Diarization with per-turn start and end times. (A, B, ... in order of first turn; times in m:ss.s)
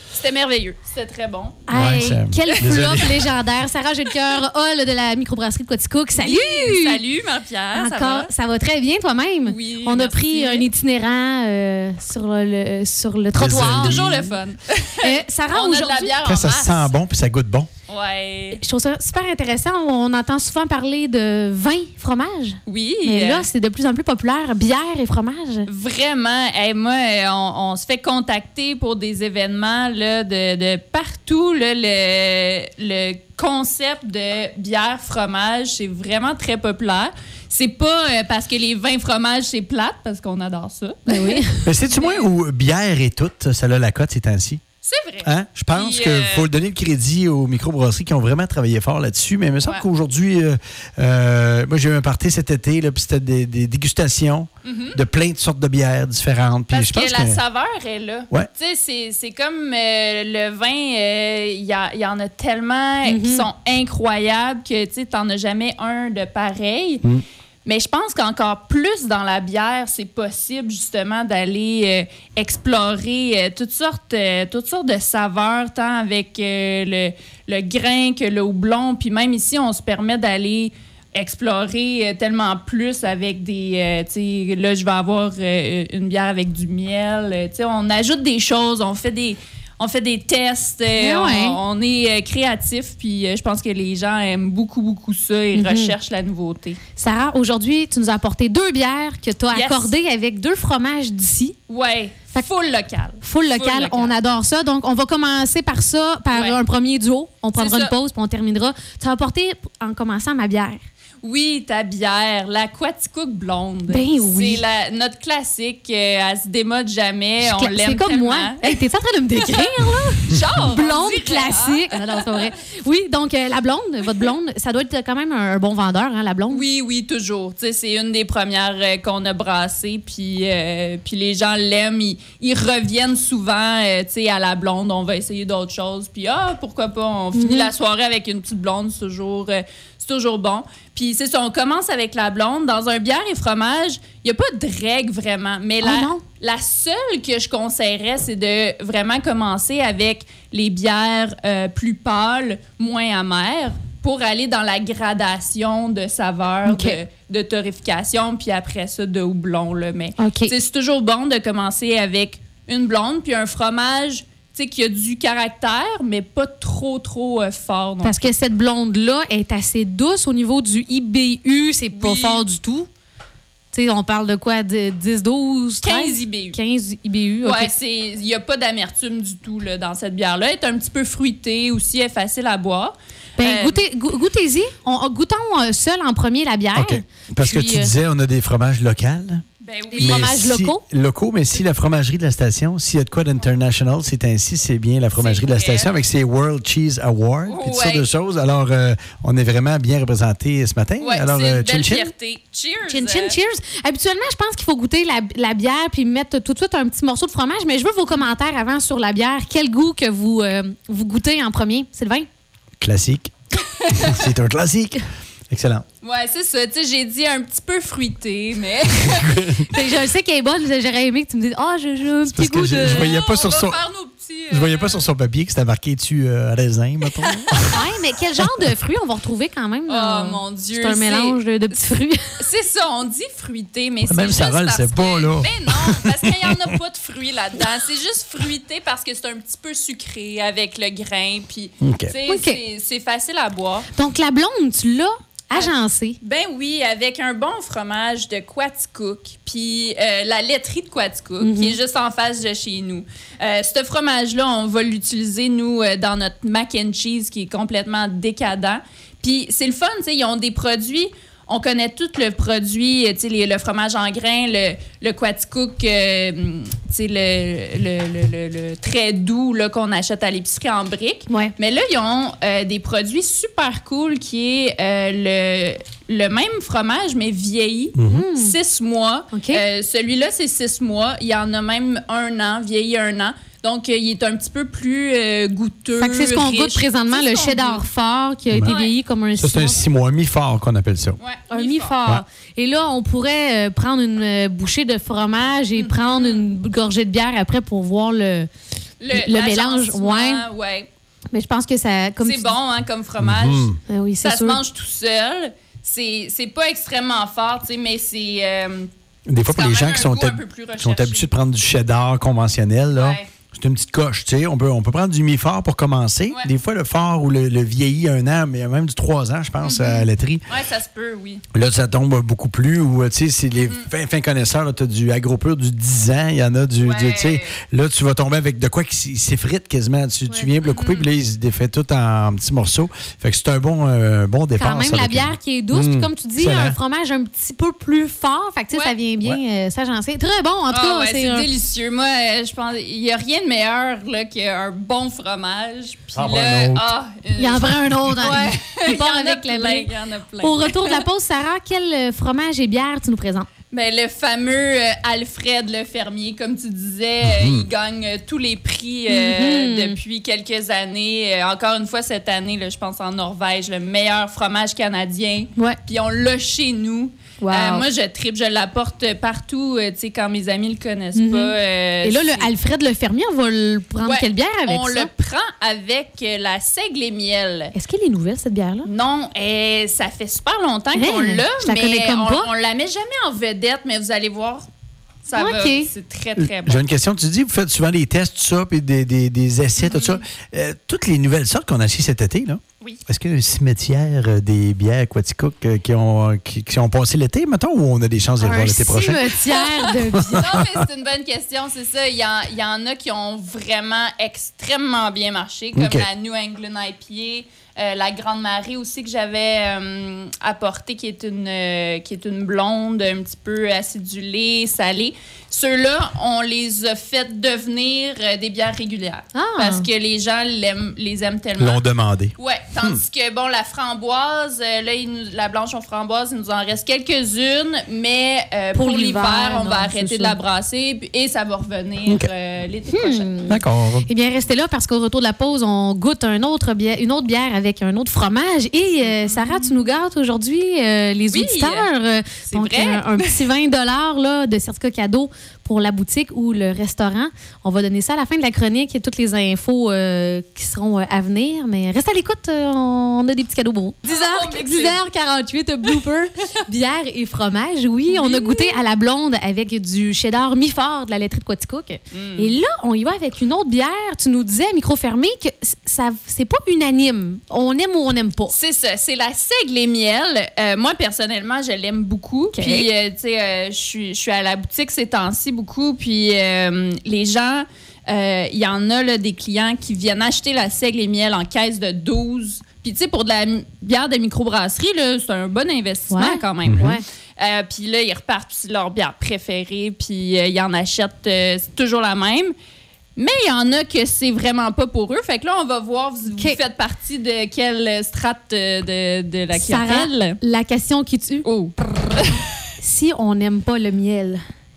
0:00.1-0:01.6 A
0:01.7-0:07.0 B
0:01.7-0:03.3 C
0:06.2-0:08.3 A
0:07.7-0:14.0 B
0:09.4-0:10.7 A
0:13.3-0:14.3 C
0:13.5-0:16.9 A
0:15.0-0:16.2 B
0:16.2-0:17.7 C
0:17.9-0:18.6 A
0:18.5-0:25.7 B
0:22.6-0:23.5 A
0:25.7-0:42.3 A
0:41.1-0:41.7 B
0:41.6-0:44.6 C
0:44.8-0:46.5 A
0:45.2-0:57.4 C
0:54.6-0:55.0 A
0:56.7-1:07.0 A
1:03.0-1:03.5 B
1:07.6-1:36.8 A
1:30.9-1:31.6 B
1:35.5-1:35.9 B
1:37.0-1:41.6 B
1:39.5-1:39.9 A
1:41.7-1:44.1 A
1:43.2-1:50.8 B
1:46.3-1:46.6 A
1:47.6-1:47.9 A
1:51.2-1:58.8 A
1:53.9-1:54.6 B
1:57.4-2:06.6 B
1:59.4-2:02.5 A
2:06.5-2:48.3 A
2:17.3-2:17.7 B
2:25.8-2:26.2 B
2:36.6-2:37.0 B
2:40.2-2:40.5 B
2:48.0-2:52.9 B
2:51.9-2:52.4 A
2:53.7-2:57.7 B
2:55.8-2:56.6 A
2:57.4-3:03.8 A
3:03.4-3:07.9 B
3:06.7-3:09.4 C
3:09.6-3:10.3 A
3:09.9-3:10.8 B
3:10.0-3:22.1 C
3:15.1-3:15.9 A
3:17.5-3:18.1 A
3:21.0-3:23.4 A
3:22.8-3:32.3 B
3:32.8-3:33.3 C
3:33.7-3:34.3 A
3:33.9-3:35.8 C
3:36.0-3:39.2 A
3:39.0-3:39.7 C
3:39.7-3:43.2 B
3:42.3-3:43.8 C
3:42.8-3:45.0 A
3:44.5-3:47.8 C
3:47.2-3:47.7 A
3:47.7-3:52.4 B
3:49.9-3:51.8 A
3:52.4-4:03.9 A
3:54.0-3:56.7 C
4:01.8-4:02.1 C
4:02.3-4:02.6 B
4:03.9-4:06.2 B
4:05.5-4:47.8 A
4:11.4-4:11.8 B
4:31.3-4:31.5 B
4:38.0-4:38.2 C
4:38.1-4:38.6 B
4:39.3-4:39.6 B
4:46.0-4:49.8 B
4:48.6-4:48.9 A
4:49.4-4:51.2 C
4:51.2-4:52.0 A
4:51.5-4:58.5 B
4:55.7-4:56.5 A
4:59.0-5:00.9 A
4:59.1-5:00.4 B
5:01.3-5:02.5 B
5:02.2-5:08.9 A
5:03.2-5:03.8 C
5:03.9-5:04.6 B
5:09.2-5:20.4 C
5:09.5-5:11.3 A
5:13.0-5:13.3 A
5:19.6-5:21.4 A
5:21.5-5:36.8 C
5:23.6-5:23.9 A
5:26.8-5:27.5 A
5:30.6-5:31.1 A
5:34.6-5:41.5 B
5:38.7-5:39.0 A
5:40.7-5:51.0 A
5:46.1-5:46.8 C
5:47.4-5:53.5 B
5:53.7-6:12.5 A
5:57.2-5:57.7 C
5:59.1-6:00.0 B
6:07.4-6:07.8 B
6:11.1-6:15.1 B
6:14.0-6:17.7 A
6:17.7-6:18.9 B
6:18.8-6:24.7 A
6:20.9-6:22.5 B
6:25.2-6:26.8 A
6:25.3-6:25.9 B
6:26.4-6:39.4 C
6:29.8-6:30.2 A
6:38.4-6:40.6 B
6:39.4-7:01.8 A
6:40.1-6:40.8 C
6:45.7-6:46.1 C
6:59.3-6:59.9 B
7:01.6-7:03.0 C
7:02.4-7:13.4 A
7:08.7-7:10.4 B
7:12.9-7:48.5 B
7:13.5-7:14.1 C
7:19.0-7:19.8 A
7:21.3-7:21.9 A
7:22.4-7:23.5 A
7:34.0-7:35.0 A
7:38.1-7:38.8 A
7:42.1-7:42.6 A
7:48.5-8:12.5 A
7:52.5-7:52.9 B
8:06.1-8:07.0 B
8:06.6-8:06.9 C
8:13.2-8:20.4 A
8:16.3-8:16.6 B
8:19.5-8:21.4 B
8:21.4-8:22.6 A
8:22.8-8:24.4 B